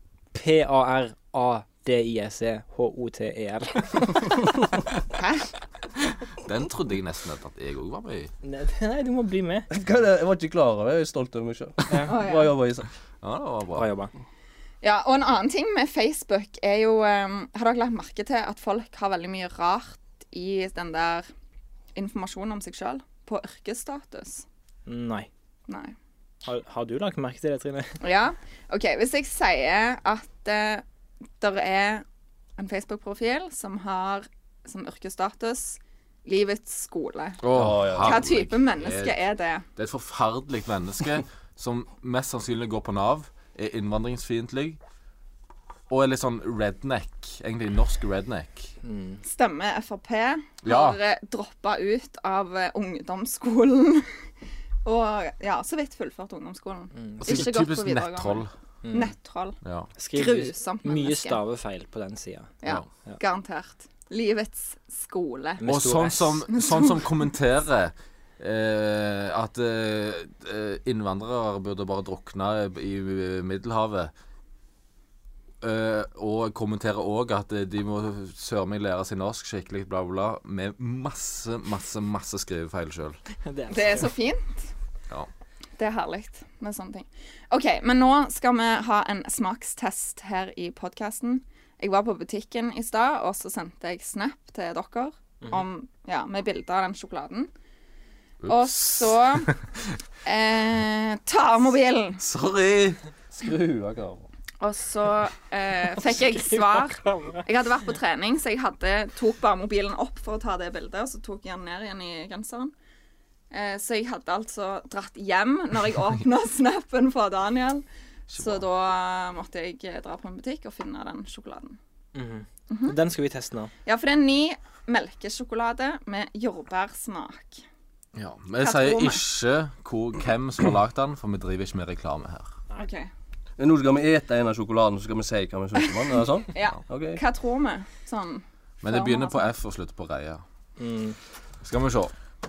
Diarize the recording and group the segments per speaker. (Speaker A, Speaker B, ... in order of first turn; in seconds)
Speaker A: 0.3-4.5, 8.4-9.7, 11.9-12.1, 13.7-14.1, 24.9-25.3, 26.4-28.0, 48.8-49.2, 56.9-57.4, 58.8-59.1, 60.0-62.5, 65.6-66.4, 83.4-84.0, 106.2-107.4, 122.1-123.7, 140.8-141.2
Speaker B: 5.1-5.5, 12.1-12.5, 14.8-21.3, 21.9-24.4, 25.7-25.9, 28.0-30.8, 31.4-32.0, 32.6-39.6, 49.2-54.1, 54.8-59.6, 60.1-61.4, 62.6-65.6, 66.5-66.9, 83.7-84.7, 85.8-97.5, 98.5-99.5, 100.2-102.2, 104.6-112.7, 113.5-117.8, 118.3-121.8, 122.7-123.0, 123.8-127.6, 128.6-129.2, 132.7-133.1, 136.5-139.4
Speaker C: 6.2-8.3, 13.2-13.9, 37.4-39.2, 39.8-44.8, 45.9-48.7, 50.6-51.0, 57.2-58.5, 59.6-59.9, 65.6-74.1, 75.6-83.2, 98.4-99.9, 102.2-103.0, 118.3-118.6, 128.1-132.6, 138.8-140.4, 141.6-142.1
Speaker D: 9.7-12.9, 37.5-38.2, 103.3-104.3, 133.6-137.2